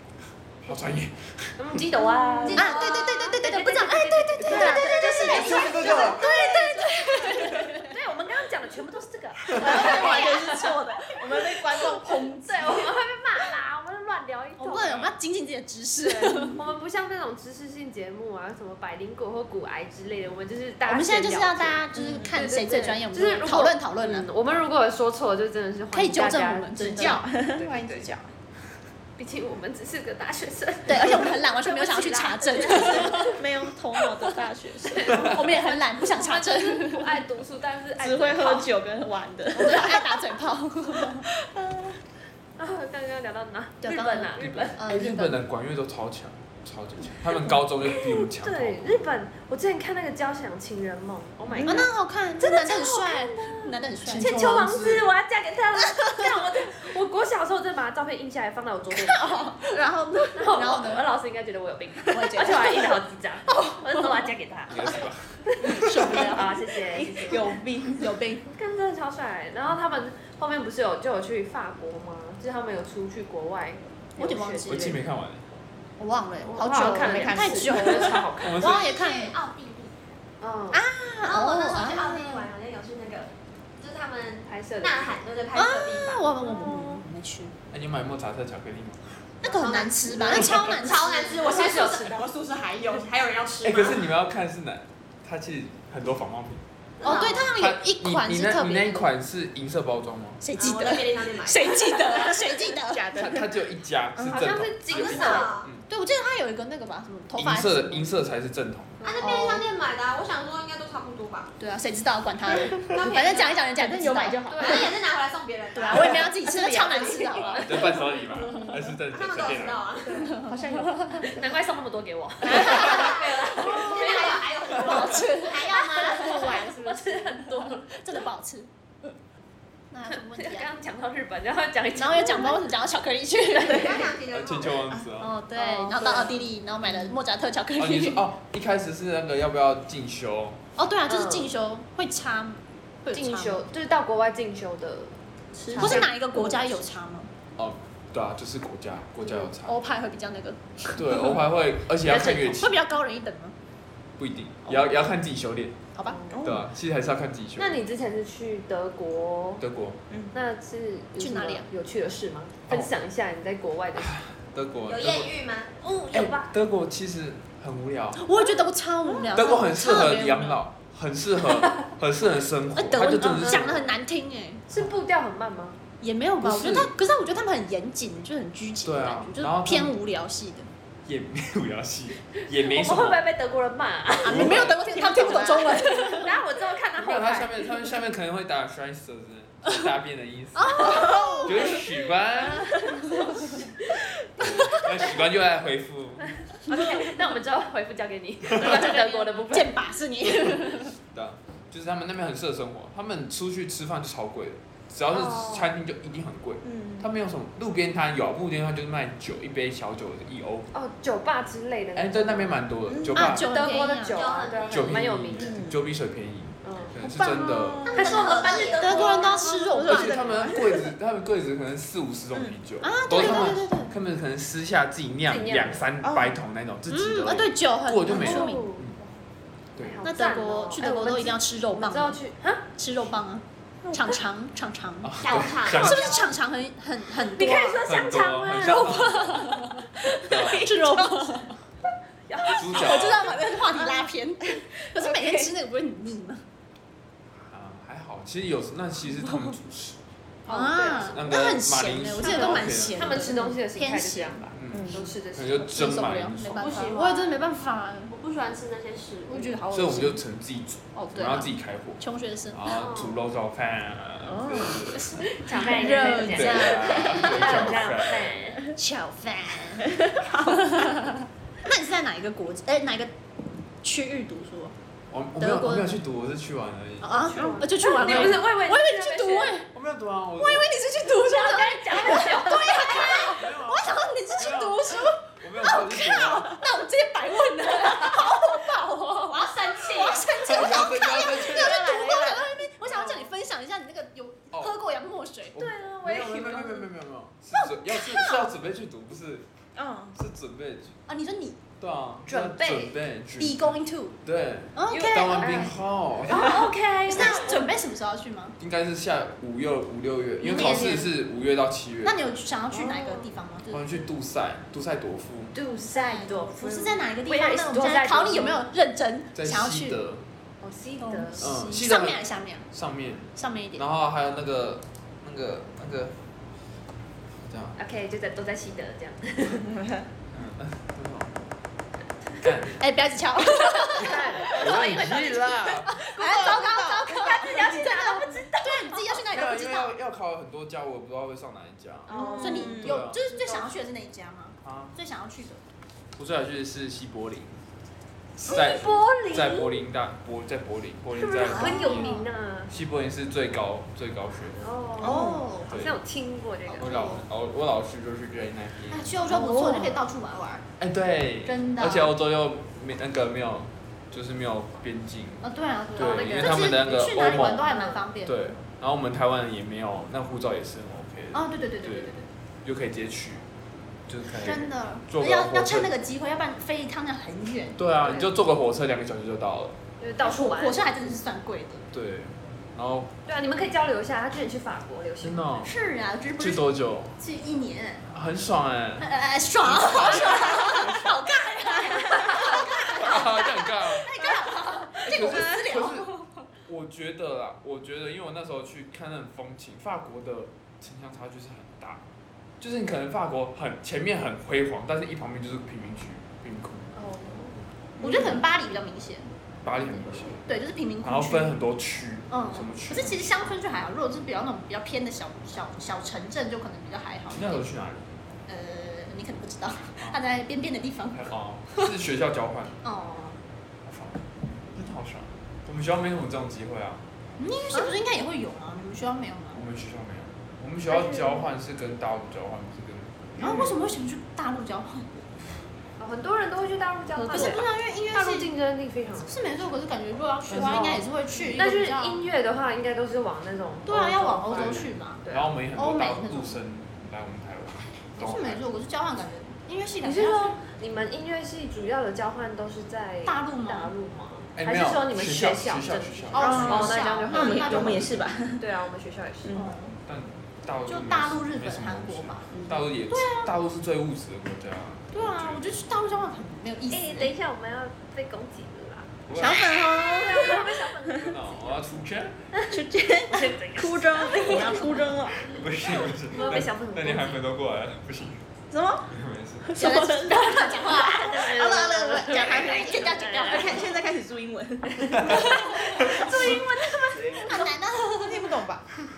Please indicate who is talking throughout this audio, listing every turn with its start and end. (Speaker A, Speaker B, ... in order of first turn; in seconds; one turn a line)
Speaker A: 0.6-1.8
Speaker B: 1.6-10.8
Speaker C: 2.0-2.9
Speaker D: 2.5-3.0
Speaker E: 2.5-7.9
Speaker C: 4.4-6.2
Speaker D: 5.1-5.9
Speaker A: 5.3-6.3
Speaker C: 9.5-12.9
Speaker E: 9.6-10.8
Speaker B: 11.7-15.1
Speaker E: 14.6-16.6
Speaker B: 16.0-21.8
Speaker E: 20.9-24.3
Speaker C: 21.9-22.3
Speaker B: 22.3-28.1
Speaker E: 25.9-27.2
Speaker C: 26.8-28.3
Speaker B: 29.2-33.4
Speaker E: 30.9-33.4
Speaker C: 32.6-35.1
Speaker B: 34.9-38.7
Speaker E: 35.1-37.2
Speaker C: 38.0-40.3
Speaker E: 39.5-41.3
Speaker C: 41.0-42.0
Speaker B: 42.6-44.8
Speaker E: 43.8-45.4
Speaker A: 44.9-49.0
Speaker B: 47.9-59.5
Speaker E: 51.6-54.4
Speaker A: 54.1-55.1
Speaker E: 59.1-61.0
Speaker B: 60.3-67.5
Speaker E: 62.1-62.8
Speaker A: 64.7-66.2
Speaker C: 65.6-68.4
Speaker E: 65.6-66.4
Speaker E: 68.0-68.3
Speaker B: 68.5-75.0
Speaker E: 74.2-75.0
Speaker A: 74.7-75.4
Speaker E: 76.0-79.4
Speaker B: 76.4-78.5
Speaker C: 76.5-78.4
Speaker A: 78.4-78.8
Speaker D: 78.5-80.1
Speaker B: 80.4-80.8
Speaker E: 80.7-82.5
Speaker D: 81.2-86.3
Speaker B: 84.5-85.2
Speaker E: 85.5-87.5
Speaker B: 86.4-87.0
Speaker A: 87.7-89.0
Speaker E: 89.4-91.6
Speaker D: 89.4-94.1
Speaker A: 90.4-90.7
Speaker C: 91.2-93.1
Speaker A: 93.6-96.6
Speaker D: 97.0-97.5
Speaker E: 97.0-99.1
Speaker A: 97.5-100.4
Speaker E: 100.4-103.1
Speaker D: 100.5-102.2
Speaker C: 102.2-103.5
Speaker A: 103.1-105.8
Speaker C: 104.2-104.5
Speaker B: 104.3-105.5
Speaker D: 104.9-105.7
Speaker E: 105.9-108.1
Speaker A: 107.3-109.0
Speaker D: 109.0-111.5
Speaker C: 109.2-109.6
Speaker E: 109.2-109.6
Speaker E: 111.6-114.5
Speaker C: 112.5-113.2
Speaker D: 112.8-113.8
Speaker C: 113.8-114.9
Speaker B: 114.5-114.9
Speaker D: 114.5-117.6
Speaker E: 115.7-117.9
Speaker C: 115.8-117.3
Speaker A: 117.5-119.8
Speaker C: 118.4-118.8
Speaker D: 119.1-120.3
Speaker C: 120.0-121.4
Speaker E: 120.2-121.2
Speaker B: 121.2-124.9
Speaker E: 122.4-123.2
Speaker D: 122.6-126.7
Speaker E: 124.7-126.1
Speaker B: 125.7-128.1
Speaker C: 126.0-127.4
Speaker E: 127.7-129.1
Speaker E: 129.9-130.7
Speaker B: 130.1-132.7
Speaker E: 132.0-134.1
Speaker B: 133.5-134.1
Speaker D: 133.6-134.9
Speaker A: 134.3-135.3
Speaker B: 135.2-136.5
Speaker E: 135.5-138.2
Speaker C: 135.9-136.2
Speaker A: 137.8-140.6
Speaker E: 140.8-143.6
Speaker B: 141.1-141.5
Speaker B: 143.1-146.7
Speaker C: 145.5-146.1
Speaker E: 145.8-147.3
Speaker A: 147.6-149.8
Speaker B: 149.2-149.5
Speaker E: 149.6-151.4
Speaker A: 150.9-152.8
Speaker E: 152.0-153.5
Speaker A: 154.2-155.8
Speaker B: 156.0-156.4
Speaker C: 156.3-156.7
Speaker A: 156.4-157.8
Speaker B: 157.6-159.6
Speaker A: 159.6-160.0
Speaker B: 160.3-164.2
Speaker E: 161.2-161.7
Speaker A: 163.9-165.4
Speaker D: 164.8-166.3
Speaker B: 166.0-166.5
Speaker A: 166.1-168.2
Speaker E: 168.2-170.6
Speaker B: 168.4-169.2
Speaker A: 169.3-173.9
Speaker E: 172.7-174.6
Speaker B: 174.7-175.8
Speaker E: 176.0-180.7
Speaker A: 176.4-176.9
Speaker A: 178.8-179.9
Speaker A: 181.1-183.2
Speaker B: 182.5-187.7
Speaker E: 184.2-186.4
Speaker A: 184.2-185.0
Speaker A: 187.0-193.0
Speaker E: 190.6-191.9
Speaker C: 190.9-191.5
Speaker B: 192.8-193.6
Speaker A: 194.4-196.3
Speaker E: 194.4-194.9
Speaker B: 196.4-199.8
Speaker E: 198.6-200.9
Speaker A: 201.1-210.7
Speaker B: 205.1-205.7
Speaker C: 206.6-207.1
Speaker B: 210.7-212.6
Speaker A: 211.9-213.4
Speaker C: 212.9-213.3
Speaker E: 213.1-214.2
Speaker B: 213.2-215.6
Speaker D: 214.1-215.0
Speaker A: 214.7-217.9
Speaker C: 215.3-215.8
Speaker B: 216.6-216.9
Speaker E: 217.0-220.5
Speaker C: 217.1-220.9
Speaker D: 217.8-219.8
Speaker B: 217.9-219.1
Speaker A: 219.8-229.0
Speaker E: 222.8-223.9
Speaker B: 223.1-223.5
Speaker B: 225.3-225.9
Speaker C: 226.0-226.4
Speaker E: 226.9-228.7
Speaker B: 228.1-229.1
Speaker B: 229.8-232.6
Speaker E: 230.0-232.2
Speaker E: 232.7-241.6
Speaker A: 235.0-236.3
Speaker D: 235.2-236.3
Speaker B: 237.2-241.2
Speaker A: 237.8-239.6
Speaker A: 240.2-240.8
Speaker B: 242.3-245.5
Speaker E: 242.5-246.4
Speaker A: 242.5-243.4
Speaker A: 247.5-250.0
Speaker E: 249.2-249.5
Speaker B: 250.4-251.2
Speaker E: 250.5-254.5
Speaker A: 251.1-253.2
Speaker B: 252.2-256.0
Speaker A: 254.5-256.9
Speaker C: 254.7-255.1
Speaker E: 255.7-258.1
Speaker D: 256.6-257.4
Speaker D: 258.1-259.6
Speaker E: 259.3-260.2
Speaker A: 259.7-265.3
Speaker E: 260.9-262.7
Speaker B: 262.7-263.2
Speaker C: 264.2-264.9
Speaker B: 265.3-268.6
Speaker E: 265.4-267.8
Speaker A: 266.3-268.4
Speaker D: 267.3-267.8
Speaker E: 268.7-273.1
Speaker C: 270.0-270.6
Speaker E: 273.8-274.7
Speaker A: 275.1-278.4
Speaker E: 275.4-276.0
Speaker E: 277.0-279.7
Speaker B: 277.3-279.6
Speaker A: 279.7-280.7
Speaker E: 280.4-295.6
Speaker B: 281.3-283.4
Speaker A: 283.2-286.6
Speaker B: 289.3-290.3
Speaker D: 289.8-290.4
Speaker A: 290.4-292.0
Speaker C: 290.7-292.6
Speaker A: 292.8-293.3
Speaker A: 295.5-299.5
Speaker B: 295.5-296.9
Speaker E: 297.5-298.5
Speaker C: 299.7-300.2
Speaker A: 300.1-300.9
Speaker E: 301.1-301.6
Speaker A: 301.8-306.6
Speaker B: 302.2-302.9
Speaker E: 303.4-304.1
Speaker E: 304.8-305.7
Speaker B: 304.9-305.7
Speaker B: 306.2-307.7
Speaker E: 307.1-308.6
Speaker A: 308.6-312.2
Speaker E: 310.4-311.1
Speaker E: 312.0-313.8
Speaker B: 312.7-313.3
Speaker A: 313.7-315.5
Speaker B: 315.5-318.6
Speaker E: 315.8-320.0
Speaker A: 319.3-320.2
Speaker B: 320.6-321.5
Speaker E: 321.0-322.6
Speaker A: 321.4-326.2
Speaker E: 323.4-323.8
Speaker A: 327.4-327.8
Speaker B: 327.8-329.7
Speaker C: 329.8-330.0
Speaker A: 330.3-331.5
Speaker A: 332.4-332.8
Speaker E: 332.8-339.9
Speaker B: 333.9-335.0
Speaker A: 334.4-336.0
Speaker C: 336.1-337.8
Speaker B: 337.1-339.1
Speaker A: 339.3-343.5
Speaker B: 342.1-343.7
Speaker C: 342.1-343.0
Speaker E: 342.3-345.6
Speaker A: 344.6-344.9
Speaker A: 346.1-347.6
Speaker A: 348.4-352.2
Speaker B: 348.4-349.8
Speaker B: 351.1-352.7
Speaker E: 351.4-352.2
Speaker A: 352.7-354.7
Speaker B: 354.6-357.1
Speaker E: 355.0-355.7
Speaker C: 355.0-355.5
Speaker A: 355.6-356.0
Speaker E: 356.7-357.2
Speaker A: 356.8-359.6
Speaker E: 358.9-360.6
Speaker B: 359.3-360.0
Speaker A: 360.8-373.5
Speaker E: 361.4-362.1
Speaker E: 365.4-368.5
Speaker B: 365.9-366.8
Speaker B: 367.6-368.0
Speaker E: 371.3-372.3
Speaker A: 374.1-375.9
Speaker E: 374.3-377.8
Speaker A: 377.8-379.8
Speaker B: 378.0-378.3
Speaker B: 380.0-380.8
Speaker E: 380.2-381.9
Speaker A: 381.9-383.1
Speaker B: 383.2-385.5
Speaker A: 385.2-385.7
Speaker E: 385.6-388.1
Speaker A: 386.4-387.2
Speaker A: 388.1-391.3
Speaker E: 389.0-396.3
Speaker B: 391.9-392.6
Speaker A: 392.4-394.1
Speaker C: 394.2-394.8
Speaker A: 395.0-396.1
Speaker A: 396.6-402.0
Speaker A: 402.6-406.9
Speaker B: 406.9-407.6
Speaker C: 408.0-408.4
Speaker E: 408.0-409.3
Speaker A: 408.1-408.4
Speaker A: 409.6-410.4
Speaker E: 410.4-411.6
Speaker A: 411.0-413.5
Speaker E: 412.3-417.6
Speaker A: 417.3-418.1
Speaker E: 418.5-421.9
Speaker A: 421.1-422.8
Speaker E: 422.8-423.4
Speaker A: 423.8-427.0
Speaker E: 427.4-429.6
Speaker A: 429.5-433.4
Speaker E: 433.4-435.1
Speaker C: 433.4-433.8
Speaker B: 436.0-439.6
Speaker E: 437.1-438.5
Speaker E: 439.2-442.2
Speaker A: 440.5-441.0
Speaker B: 440.5-445.5
Speaker E: 443.9-445.2
Speaker A: 444.5-448.6
Speaker E: 445.7-446.6
Speaker E: 448.2-450.6
Speaker B: 450.0-459.6
Speaker E: 453.2-453.9
Speaker A: 454.6-457.1
Speaker E: 456.3-458.2
Speaker C: 456.4-458.6
Speaker A: 457.7-458.3
Speaker C: 459.4-459.7
Speaker E: 459.5-460.0
Speaker A: 460.1-465.7
Speaker E: 460.9-462.5
Speaker C: 462.5-462.8
Speaker E: 463.1-463.5
Speaker E: 465.1-467.3
Speaker B: 466.9-469.2
Speaker A: 469.3-469.7
Speaker C: 469.3-470.9
Speaker E: 469.4-470.6
Speaker B: 469.9-471.7
Speaker A: 471.1-472.4
Speaker B: 472.5-475.1
Speaker C: 472.7-475.5
Speaker A: 475.4-478.4
Speaker B: 476.2-477.4
Speaker C: 478.7-487.7
Speaker A: 479.1-479.8
Speaker E: 479.8-483.9
Speaker B: 480.5-483.9
Speaker B: 485.0-487.5
Speaker A: 485.1-486.6
Speaker E: 485.3-488.5
Speaker C: 488.2-488.9